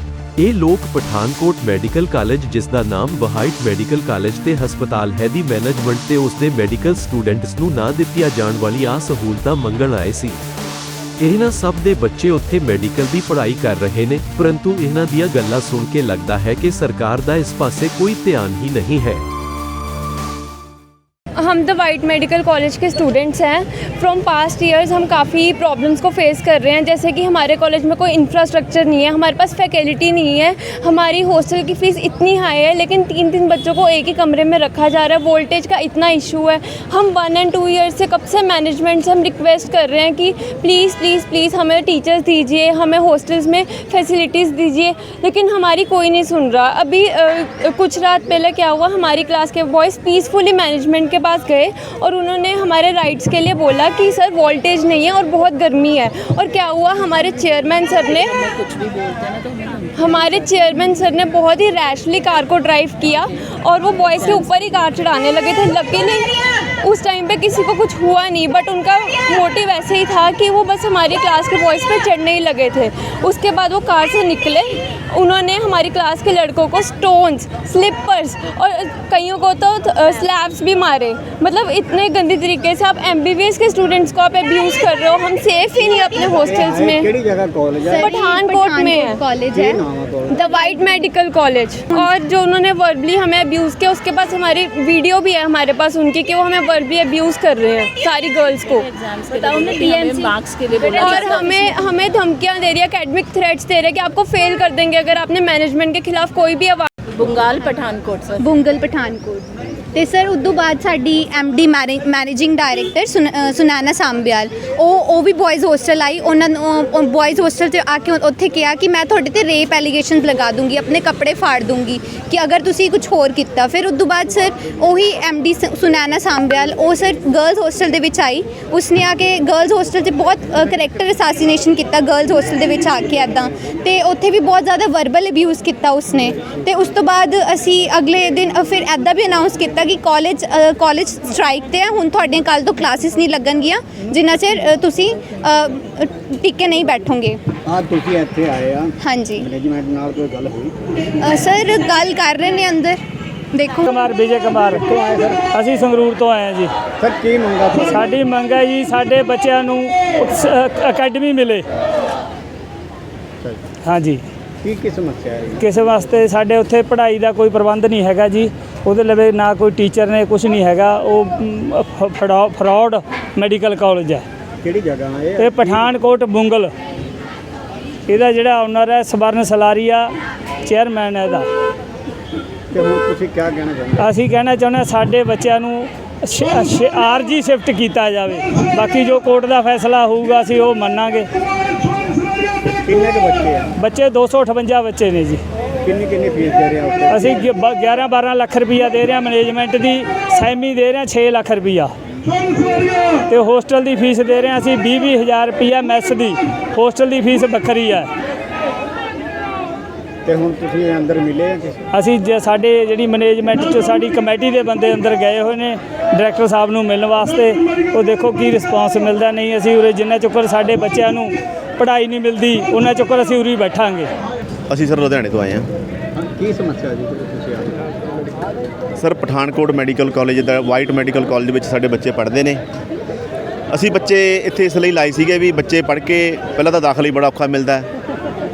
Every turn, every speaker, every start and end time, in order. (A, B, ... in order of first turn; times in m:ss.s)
0:00.4-0:10.4 A
0:11.2-0:19.2 A
0:21.4-0:58.6 B
0:58.1-1:00.3 C
1:00.0-1:27.1 B
1:26.4-1:28.1 D
1:27.9-1:29.8 E
1:28.0-1:29.2 B
1:29.5-1:30.4 D
1:30.3-1:46.9 B
1:38.7-1:42.0 C
1:47.1-1:48.4 C
1:48.4-2:27.4 E
2:27.7-2:30.7 D
2:29.0-2:29.5 E
2:31.2-2:33.0 E
2:33.6-2:33.9 E
2:33.8-2:34.9 F
2:34.8-2:35.4 D
2:35.5-2:36.7 F
2:37.0-2:38.1 D
2:37.8-2:41.6 F
2:43.8-2:44.2 F
2:44.6-2:45.7 D
2:45.6-2:54.2 F
2:54.6-2:55.9 D
2:55.4-2:56.7 F
2:58.1-3:00.1 F
3:00.6-3:01.5 F
3:02.7-3:04.1 D
3:04.0-3:11.3 F
3:12.8-3:13.7 D
3:13.8-3:15.4 F
3:15.8-3:17.4 D
3:17.1-3:21.9 F
3:23.3-3:28.1 F
3:30.2-3:31.8 D
3:31.9-3:44.1 F
3:44.7-3:45.7 G
3:46.2-3:48.0 D
3:49.0-3:52.6 G
3:53.7-3:57.9 G